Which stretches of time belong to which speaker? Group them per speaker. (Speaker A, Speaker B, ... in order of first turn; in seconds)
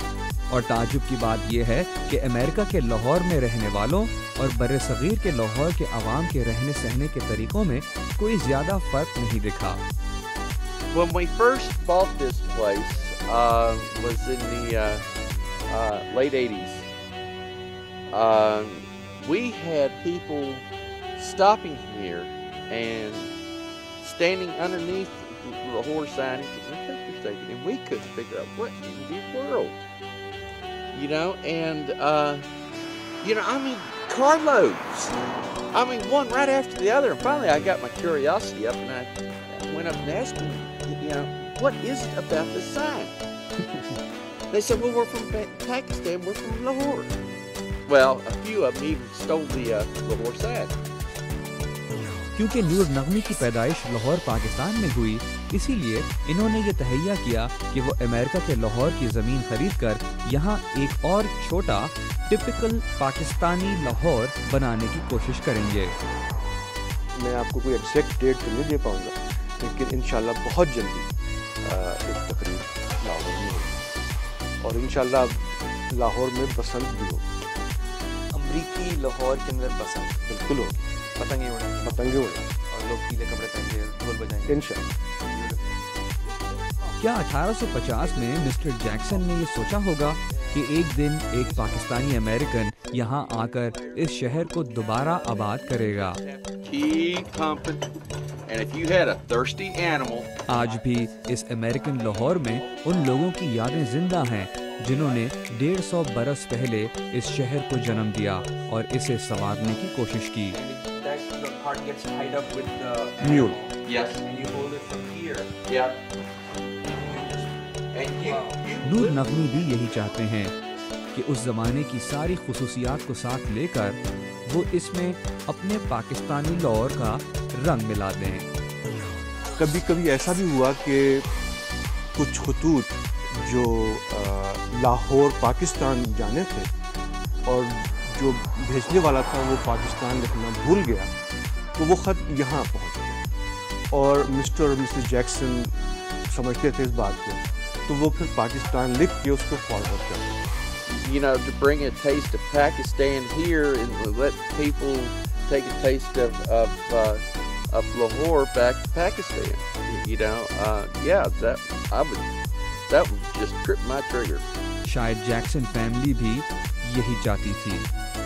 Speaker A: 0.5-9.8, 52.3-65.9, 87.0-96.2, 100.5-110.6, 118.8-120.5, 121.1-128.5, 164.8-167.9
Speaker B: 10.9-15.0, 15.7-16.9, 18.1-23.3, 24.0-29.8, 30.9-32.5, 33.2-35.1, 35.7-43.2, 44.5-47.2, 47.9-50.8, 86.2-87.0, 90.3-90.5, 91.5-97.8, 98.5-100.4, 101.9-103.1, 113.8-114.2, 115.7-116.0, 117.0-120.7, 150.8-162.3, 162.9-164.4
Speaker C: 67.2-71.1, 71.6-73.8, 74.6-77.3, 80.2-80.8, 81.8-82.4, 84.5-84.8, 113.2-113.6, 129.6-131.3, 132.2-136.7, 137.4-141.1, 141.8-143.2, 143.9-145.7, 146.3-150.3
Speaker D: 78.3-80.6, 81.1-85.7, 102.8-103.2, 104.5-105.2, 107.7-109.8, 110.5-115.5, 118.2-118.6